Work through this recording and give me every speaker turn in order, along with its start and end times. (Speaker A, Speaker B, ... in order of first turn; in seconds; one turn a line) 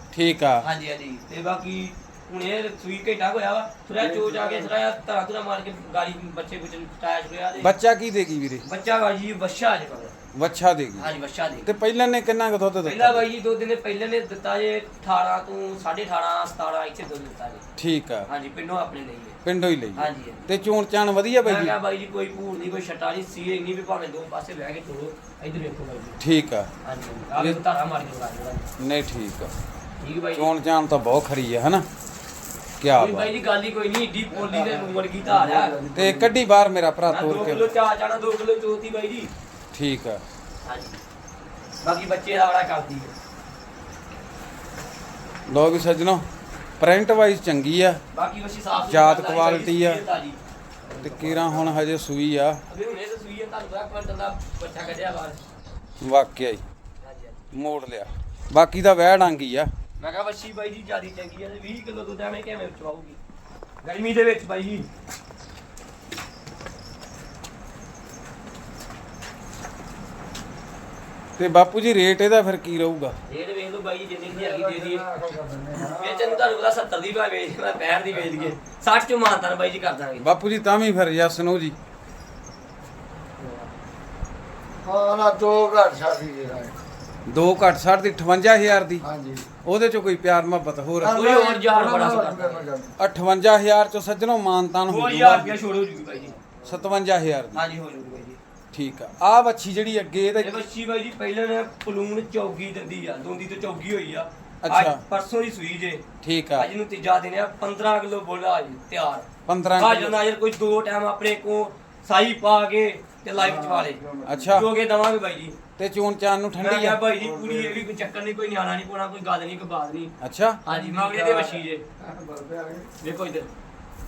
Speaker A: 0.1-0.7
Speaker B: 0.6-7.8
Speaker C: 4.0-4.8
Speaker A: 7.6-8.7
Speaker B: 8.6-10.2
Speaker A: 10.3-11.1
Speaker B: 11.0-11.7
Speaker A: 11.7-13.2
Speaker B: 12.8-17.6
Speaker A: 17.8-18.3
Speaker B: 18.3-19.4
Speaker A: 19.4-21.8
Speaker B: 20.0-20.5
Speaker B: 21.4-26.2
Speaker A: 26.2-26.7
Speaker B: 26.8-28.7
Speaker A: 27.3-27.6
Speaker A: 28.8-29.5
Speaker B: 30.0-30.5
Speaker A: 30.4-31.9
Speaker A: 32.8-33.3
Speaker B: 33.0-35.8
Speaker C: 34.4-36.4
Speaker A: 35.9-37.7
Speaker B: 37.1-39.3
Speaker A: 39.7-40.2
Speaker B: 40.6-41.0
Speaker B: 41.8-43.1
Speaker A: 45.5-46.2
Speaker A: 46.8-48.0
Speaker B: 48.1-50.4
Speaker A: 48.8-50.0
Speaker A: 51.0-52.6
Speaker B: 51.0-51.5
Speaker B: 52.7-55.4
Speaker A: 56.0-56.6
Speaker B: 57.0-57.5
Speaker A: 57.5-59.7
Speaker B: 60.0-63.2
Speaker B: 63.8-64.9
Speaker A: 71.4-73.2
Speaker B: 73.3-75.1
Speaker C: 74.3-76.5
Speaker B: 75.8-80.3
Speaker A: 80.2-81.8
Speaker C: 83.4-83.7
Speaker C: 84.8-86.8
Speaker A: 87.3-89.0
Speaker C: 89.0-89.5
Speaker A: 89.6-91.2
Speaker C: 91.0-93.0
Speaker B: 91.1-92.7
Speaker A: 93.0-95.5
Speaker B: 94.9-96.4
Speaker C: 96.4-96.8
Speaker A: 96.7-97.6
Speaker B: 97.5-98.4
Speaker A: 98.7-100.6
Speaker B: 100.4-106.0
Speaker A: 104.6-105.0
Speaker A: 106.2-106.7
Speaker B: 106.6-115.6
Speaker A: 109.5-110.2
Speaker C: 113.4-114.6
Speaker A: 114.2-114.7
Speaker A: 115.8-117.1
Speaker B: 116.6-121.8
Speaker C: 117.2-117.8
Speaker A: 120.2-120.6
Speaker C: 120.7-122.9
Speaker B: 123.0-123.5